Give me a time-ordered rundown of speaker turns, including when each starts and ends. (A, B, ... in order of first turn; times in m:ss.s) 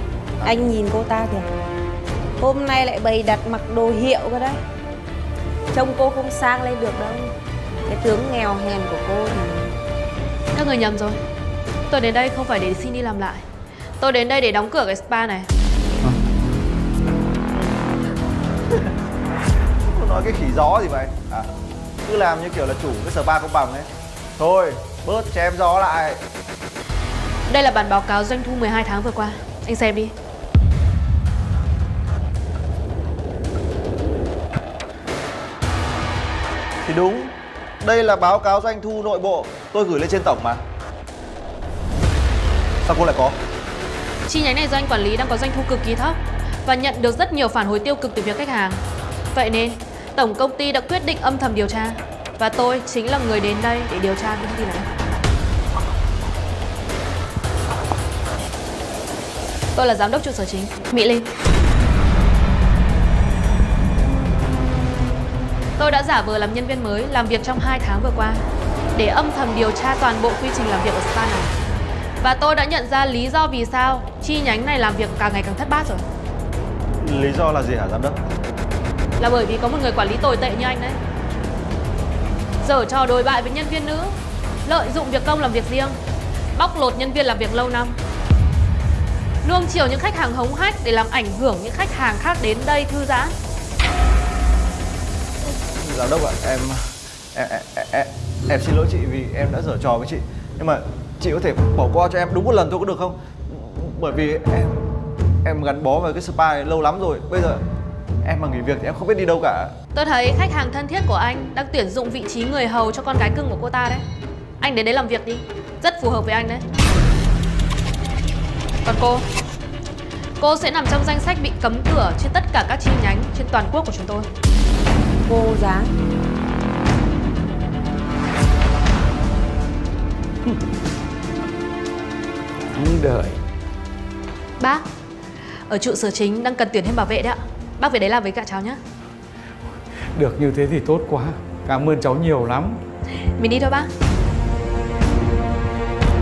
0:00.4-0:01.5 A
0:02.4-0:04.6 A
0:05.7-0:07.3 A
0:07.9-0:09.8 A
0:10.5-0:11.2 B
0:11.9-0:13.4 B
0:14.0-0:15.5 B
0:19.8-0:21.5 C
0:22.0-0:26.2 C
0:27.5-0:30.1 B
0:36.8-0:40.6 C
0:42.8-0:43.4 C
0:44.3-0:48.8 B
0:49.3-0:54.9 B
0:59.8-1:01.3 B
1:05.8-1:11.6 B
1:12.2-1:16.1 B
1:17.0-1:18.2 C
1:19.2-1:21.0 B
1:22.6-1:26.0 B
1:26.6-1:28.0 B
1:29.4-1:33.3 B
1:35.8-1:36.8 C
1:37.3-1:44.8 C
1:45.4-1:47.6 C
1:48.2-1:49.7 C
1:50.0-1:54.0 B
1:54.6-1:56.6 B
1:58.8-1:59.3 B
2:00.4-2:04.3 B
2:05.2-2:05.9 A
2:12.8-2:13.4 D
2:14.6-2:14.8 B
2:15.7-2:18.8 B
2:20.2-2:22.8 D
2:23.4-2:23.9 B